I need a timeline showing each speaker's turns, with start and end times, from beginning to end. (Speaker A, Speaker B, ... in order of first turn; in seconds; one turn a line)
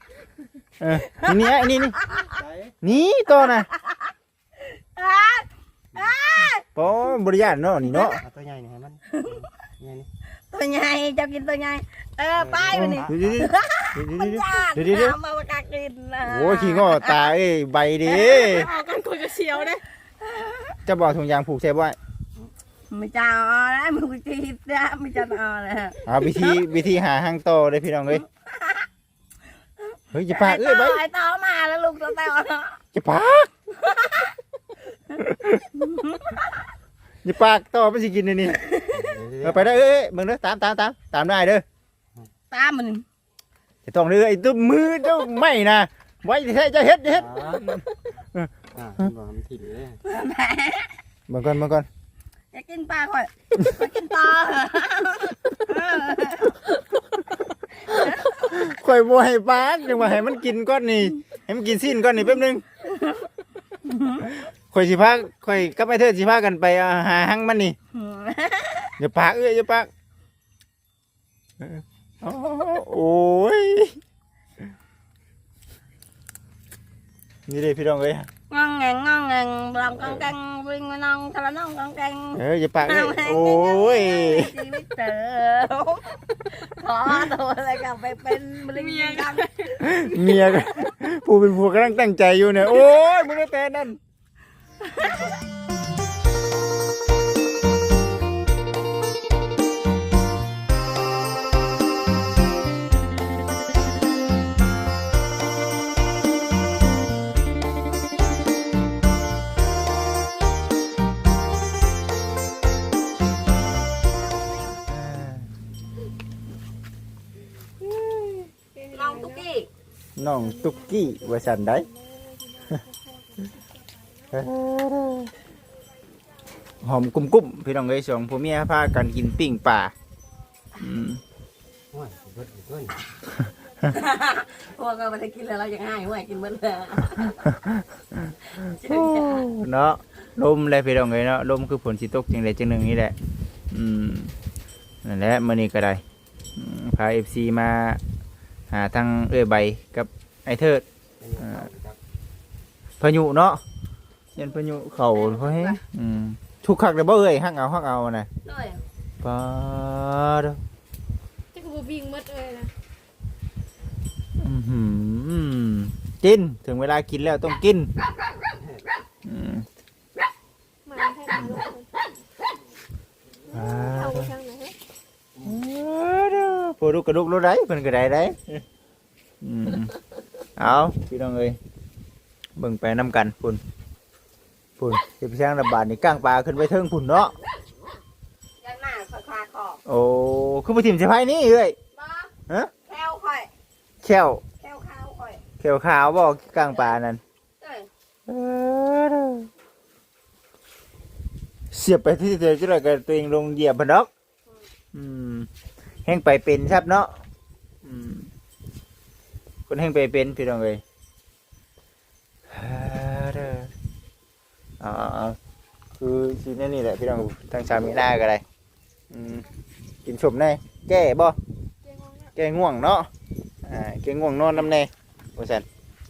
Speaker A: 0.8-2.0
Speaker B: 1.1-2.4
Speaker C: 2.3-2.7
Speaker A: 2.8-3.7
Speaker B: 3.4-6.6
Speaker A: 6.7-8.2
Speaker C: 8.2-10.1
Speaker B: 9.1-9.5
Speaker B: 10.5-17.3
Speaker C: 12.4-13.1
Speaker A: 12.7-15.2
Speaker A: 16.3-18.7
Speaker D: 18.1-19.8
Speaker B: 20.2-20.8
Speaker A: 20.9-22.0
Speaker B: 22.9-26.0
Speaker A: 26.1-28.2
Speaker B: 28.1-28.9
Speaker A: 30.1-31.0
Speaker B: 30.3-32.8
Speaker A: 32.9-33.5
Speaker B: 33.7-34.4
Speaker A: 35.2-35.6
Speaker B: 35.7-36.5
Speaker A: 37.2-38.6
Speaker B: 38.6-39.0
Speaker C: 39.0-39.7
Speaker A: 39.4-41.6
Speaker B: 42.5-43.0
Speaker A: 43.9-48.5
Speaker C: 47.1-47.6
Speaker C: 48.8-50.0
Speaker B: 50.0-50.9
Speaker A: 51.3-51.9
Speaker B: 52.5-56.6
Speaker B: 57.8-58.2
Speaker A: 57.9-62.6
Speaker B: 62.8-63.3
Speaker B: 63.8-64.4
Speaker A: 64.7-67.8
Speaker B: 67.9-68.9
Speaker A: 69.0-69.9
Speaker A: 71.6-74.0
Speaker A: 77.5-78.3
Speaker B: 78.5-89.5
Speaker A: 80.0-80.3
Speaker A: 82.4-84.5
Speaker D: 88.7-90.3
Speaker A: 89.8-94.0
Speaker B: 90.4-90.8
Speaker B: 94.8-95.3
Speaker A: 114.9-115.5
Speaker A: 117.8-118.4
Speaker D: 118.7-119.4
Speaker B: 118.9-119.7
Speaker A: 120.2-121.9
Speaker D: 120.3-123.8
Speaker A: 124.3-125.3
Speaker A: 126.8-129.9
Speaker A: 130.8-131.2
Speaker C: 131.9-133.0
Speaker B: 133.8-137.5
Speaker B: 138.5-139.5
Speaker A: 138.7-143.2
Speaker A: 143.7-144.3
Speaker A: 145.0-146.0
Speaker A: 146.6-148.0
Speaker A: 148.7-150.8
Speaker C: 151.2-152.0
Speaker A: 151.4-151.7
Speaker A: 153.0-153.6
Speaker A: 154.4-158.3
Speaker B: 154.8-155.8
Speaker B: 158.4-158.8
Speaker A: 159.2-160.6
Speaker D: 161.5-162.7
Speaker A: 164.4-167.9
Speaker A: 169.2-169.7
Speaker D: 170.8-171.9
Speaker D: 173.5-174.8
Speaker A: 173.5-174.3
Speaker A: 175.4-178.6
Speaker A: 179.4-179.9
Speaker A: 180.6-181.6
Speaker A: 182.6-183.6
Speaker A: 184.8-187.3
Speaker B: 188.6-189.8
Speaker A: 189.9-191.8
Speaker B: 191.9-192.3
Speaker B: 192.8-193.5
Speaker A: 194.0-194.4
Speaker B: 194.6-195.4
Speaker A: 195.6-197.2
Speaker B: 197.6-197.9
Speaker A: 198.3-199.5
Speaker A: 201.7-204.1
Speaker A: 204.9-205.5
Speaker A: 206.1-207.1
Speaker A: 207.8-208.3
Speaker A: 209.7-210.8
Speaker A: 212.5-213.7
Speaker A: 214.8-215.4
Speaker A: 216.0-218.4
Speaker A: 219.1-219.5
Speaker A: 220.1-221.4
Speaker D: 221.8-222.3
Speaker A: 222.4-223.1
Speaker A: 223.7-225.7